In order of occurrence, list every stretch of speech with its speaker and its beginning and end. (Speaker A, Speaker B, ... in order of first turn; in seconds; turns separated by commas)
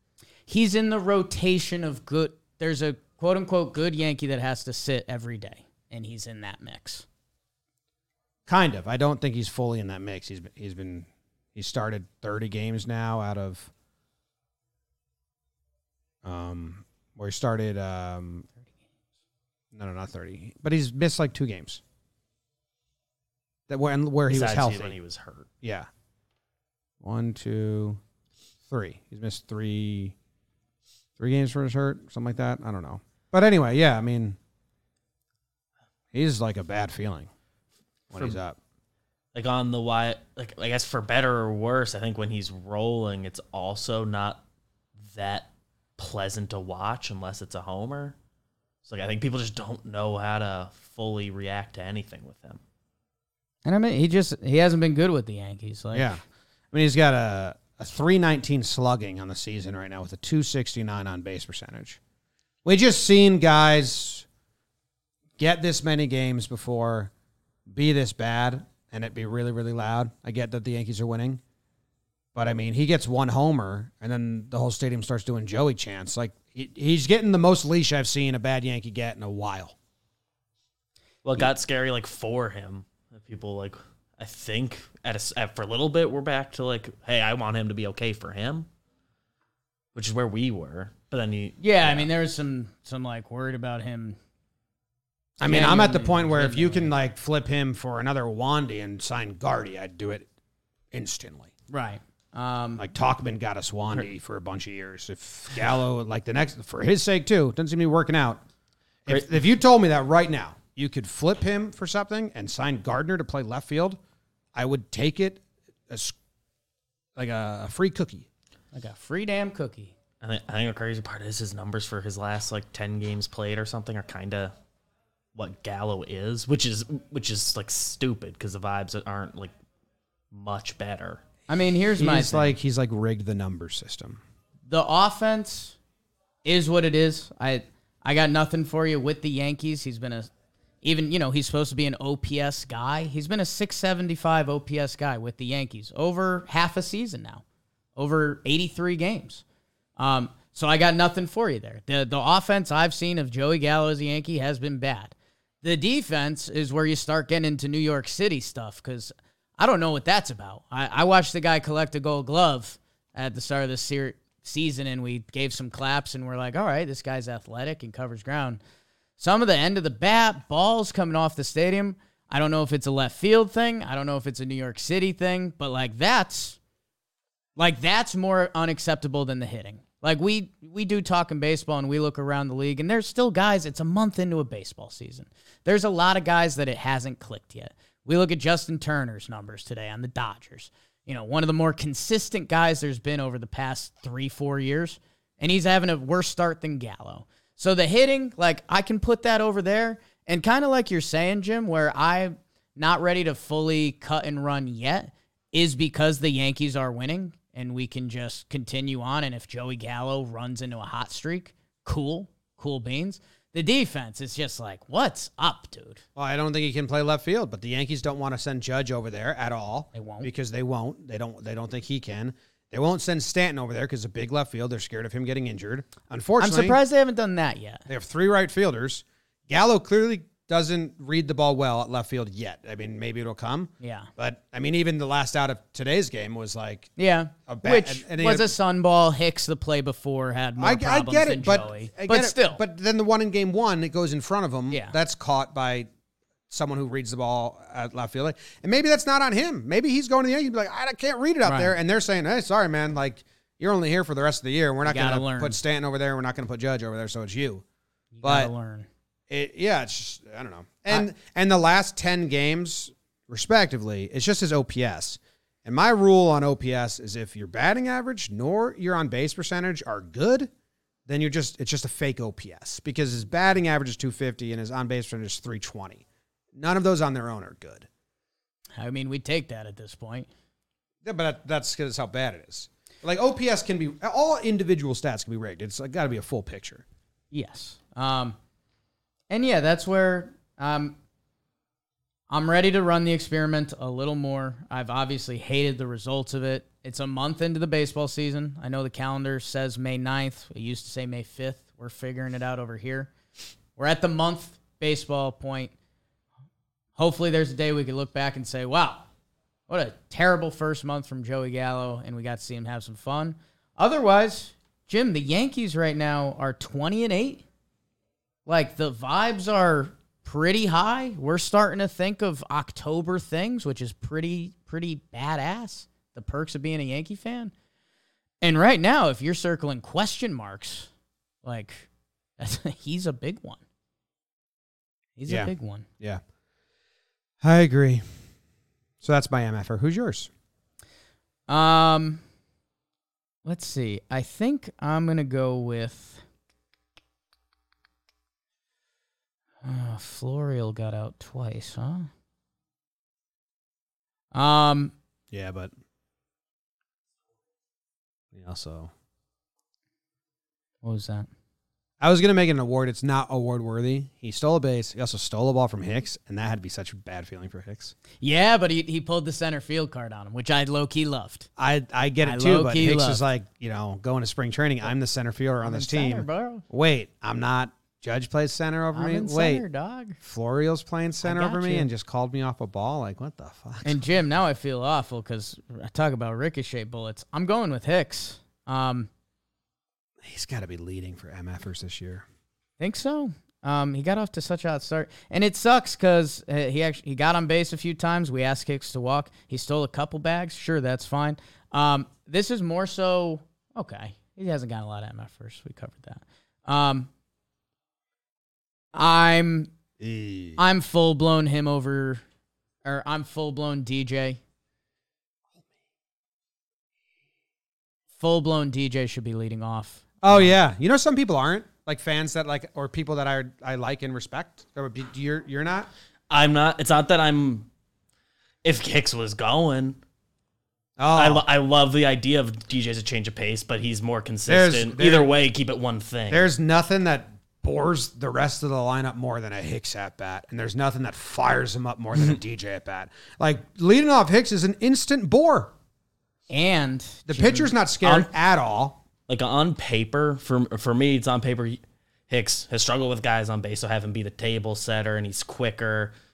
Speaker A: 0.5-7.1, Speaker B: 8.5-13.7, Speaker B: 16.2-18.5, Speaker B: 19.7-21.8, Speaker B: 23.7-25.0, Speaker C: 24.3-25.5, Speaker B: 25.6-25.9, Speaker B: 27.0-28.0, Speaker B: 28.7-30.1, Speaker B: 31.2-34.4, Speaker B: 36.1-37.3, Speaker B: 38.1-38.6, Speaker C: 38.1-38.4, Speaker C: 39.3-44.4, Speaker C: 45.0-48.2, Speaker C: 48.8-52.6, Speaker A: 53.6-56.2, Speaker B: 55.9-56.2, Speaker B: 56.7-62.0, Speaker B: 62.6-64.3, Speaker B: 65.4-67.1, Speaker B: 67.7-71.4, Speaker B: 72.3-79.8, Speaker C: 81.2-88.7, Speaker C: 90.0-92.1, Speaker A: 91.6-94.2, Speaker B: 95.4-100.3, Speaker A: 95.4-96.9, Speaker B: 100.9-101.5, Speaker A: 101.7-102.8, Speaker B: 102.8-108.4, Speaker B: 109.1-114.0, Speaker B: 114.5-116.2, Speaker B: 117.2-118.3, Speaker A: 118.7-120.0, Speaker C: 120.2-124.5, Speaker C: 125.3-129.5, Speaker C: 130.3-131.2, Speaker A: 131.5-132.6, Speaker B: 132.0-134.2, Speaker A: 134.7-135.8, Speaker A: 136.4-140.3, Speaker A: 140.8-147.4, Speaker A: 148.0-149.4, Speaker A: 150.0-168.6, Speaker A: 169.2-176.6, Speaker A: 177.6-216.0, Speaker B: 216.2-226.8, Speaker A: 219.9-220.3, Speaker A: 226.4-227.9, Speaker B: 227.9-236.9, Speaker A: 233.8-234.1, Speaker A: 237.0-242.6, Speaker B: 237.5-238.5, Speaker B: 240.6-245.9, Speaker A: 244.7-245.0, Speaker B: 246.5-257.6, Speaker A: 251.4-251.8, Speaker A: 254.8-255.6, Speaker A: 258.1-258.9, Speaker B: 258.2-258.5, Speaker B: 259.3-270.5, Speaker B: 271.1-277.9, Speaker A: 278.8-280.3, Speaker B: 281.0-286.8, Speaker A: 287.3-288.4, Speaker A: 289.3-291.0, Speaker A: 292.3-303.1, Speaker A: 303.8-305.7, Speaker A: 307.0-309.1, Speaker A: 309.7-317.4, Speaker A: 318.5-327.5, Speaker A: 328.4-330.9, Speaker A: 331.4-333.6, Speaker A: 335.2-335.9, Speaker B: 335.3-336.2, Speaker B: 337.4-338.1, Speaker B: 339.0-340.3, Speaker A: 341.5-342.2, Speaker A: 343.4-346.2, Speaker A: 349.6-352.1, Speaker A: 354.3-354.9, Speaker B: 355.3-355.7, Speaker B: 358.3-358.9, Speaker A: 360.8-361.3, Speaker B: 362.0-367.9, Speaker A: 368.2-371.5, Speaker B: 371.6-379.6, Speaker A: 372.2-373.2, Speaker A: 375.6-376.6, Speaker A: 378.9-380.2, Speaker B: 380.2-384.0, Speaker A: 381.2-381.9, Speaker A: 383.8-389.1, Speaker B: 390.2-392.2, Speaker A: 392.8-407.1, Speaker A: 408.9-409.7, Speaker B: 410.0-410.6, Speaker A: 410.6-412.2, Speaker A: 412.9-414.4, Speaker A: 418.2-420.5, Speaker B: 420.2-425.9, Speaker C: 426.3-427.7, Speaker C: 428.6-430.0, Speaker B: 431.0-431.4, Speaker C: 431.1-436.5, Speaker B: 434.5-435.3, Speaker B: 436.3-445.7, Speaker A: 446.5-447.8, Speaker B: 447.3-449.0, Speaker C: 449.3-456.1